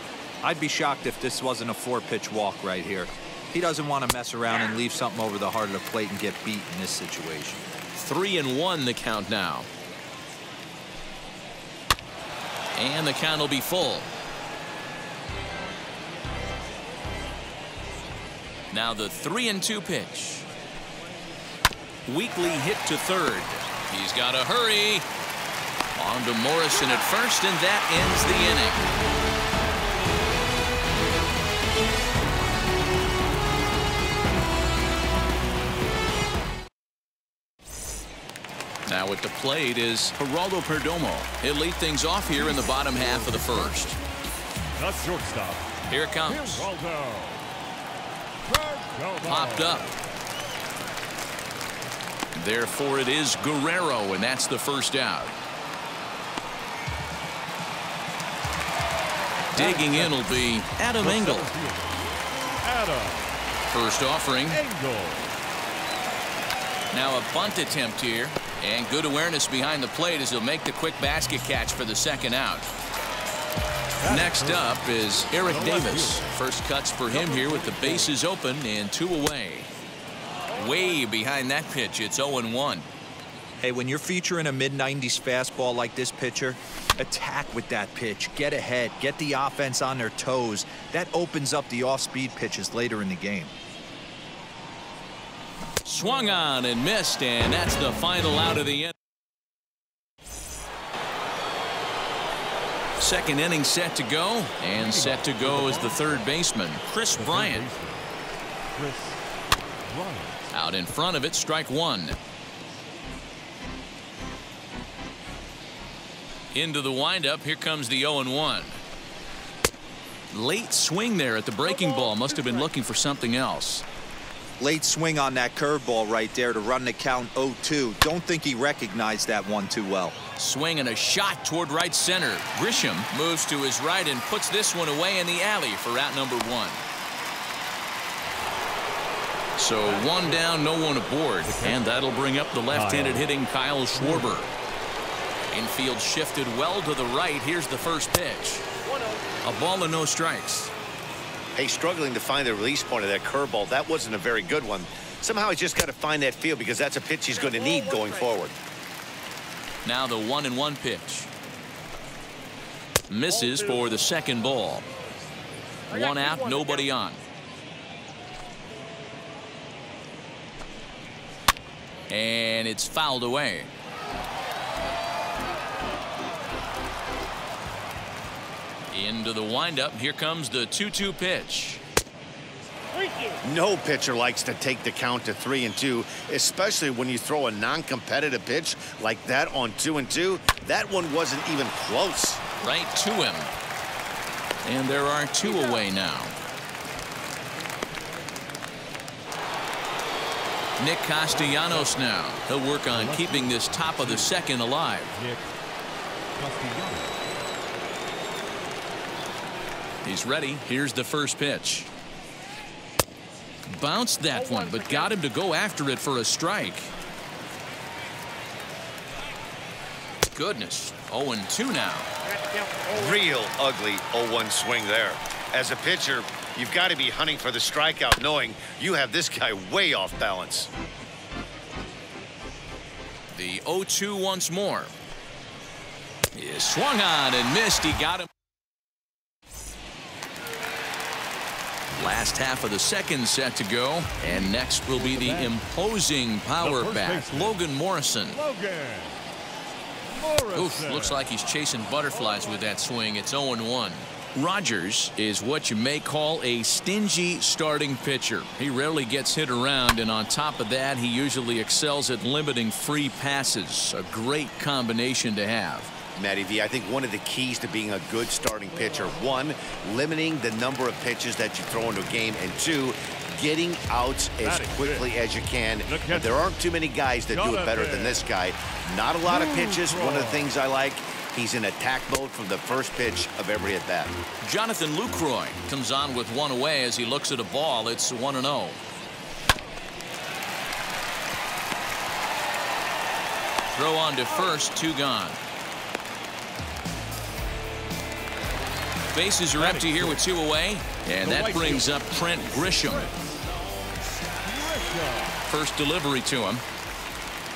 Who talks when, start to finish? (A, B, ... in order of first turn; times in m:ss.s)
0:00.4-0:07.6 A
0:08.0-0:09.7 B
0:12.8-0:14.1 B
0:18.7-0:20.5 B
0:22.1-0:25.1 B
0:26.0-0:28.9 B
0:38.9-0:44.0 B
0:42.9-0:43.9 C
0:44.8-0:45.7 C
0:45.9-0:46.7 B
0:46.2-0:47.5 C
0:48.5-0:49.9 C
0:49.2-0:50.0 B
0:52.4-0:55.3 B
0:59.5-1:00.3 C
0:59.5-1:01.5 B
1:01.0-1:02.0 C
1:02.6-1:03.4 C
1:03.7-1:04.6 B
1:04.5-1:05.3 C
1:06.9-1:12.7 B
1:14.0-1:16.3 C
1:14.0-1:19.7 B
1:17.1-1:18.2 C
1:20.5-1:22.9 B
1:23.6-1:33.5 A
1:35.8-1:38.9 B
1:43.0-1:47.7 B
1:44.7-1:46.3 C
1:47.1-1:48.1 C
1:48.7-1:49.3 C
1:49.8-1:50.5 C
1:50.5-1:52.2 B
1:56.5-1:58.8 B
2:00.3-2:03.8 B
2:04.6-2:10.2 A
2:10.4-2:16.8 B
2:19.6-2:24.5 B
2:19.8-2:20.5 C
2:21.4-2:22.0 C
2:22.7-2:23.4 C
2:23.9-2:24.4 C
2:25.5-2:28.6 B
2:29.4-2:30.7 B
2:31.6-2:38.6 D
2:39.8-2:41.3 B
2:43.1-2:44.9 B
2:45.9-2:47.2 B
2:52.1-2:53.7 B
2:58.9-3:01.8 B
3:03.4-3:12.4 D
3:12.6-3:13.5 B
3:14.6-3:16.4 B
3:20.8-3:25.2 B
3:21.3-3:22.0 C
3:22.9-3:24.5 C
3:25.1-3:25.5 C
3:26.4-3:27.2 C
3:30.0-3:31.9 B
3:33.7-3:36.9 B
3:40.3-3:42.1 B
3:42.9-3:50.7 D
3:53.4-3:54.9 B
3:56.4-3:58.3 B
4:01.9-4:08.4 B
4:04.2-4:05.6 C
4:06.6-4:07.6 C
4:08.3-4:09.2 C
4:10.1-4:11.3 C
4:10.5-4:25.9 B
4:26.2-4:44.2 D
4:34.4-4:35.1 C
4:35.8-4:36.6 C
4:37.3-4:38.3 C
4:39.2-4:40.6 C
4:44.4-4:48.8 B
4:53.7-4:55.4 B
4:59.1-5:03.1 B
4:59.6-5:00.3 C
5:01.2-5:03.3 C
5:04.4-5:05.4 C
5:05.5-5:06.6 B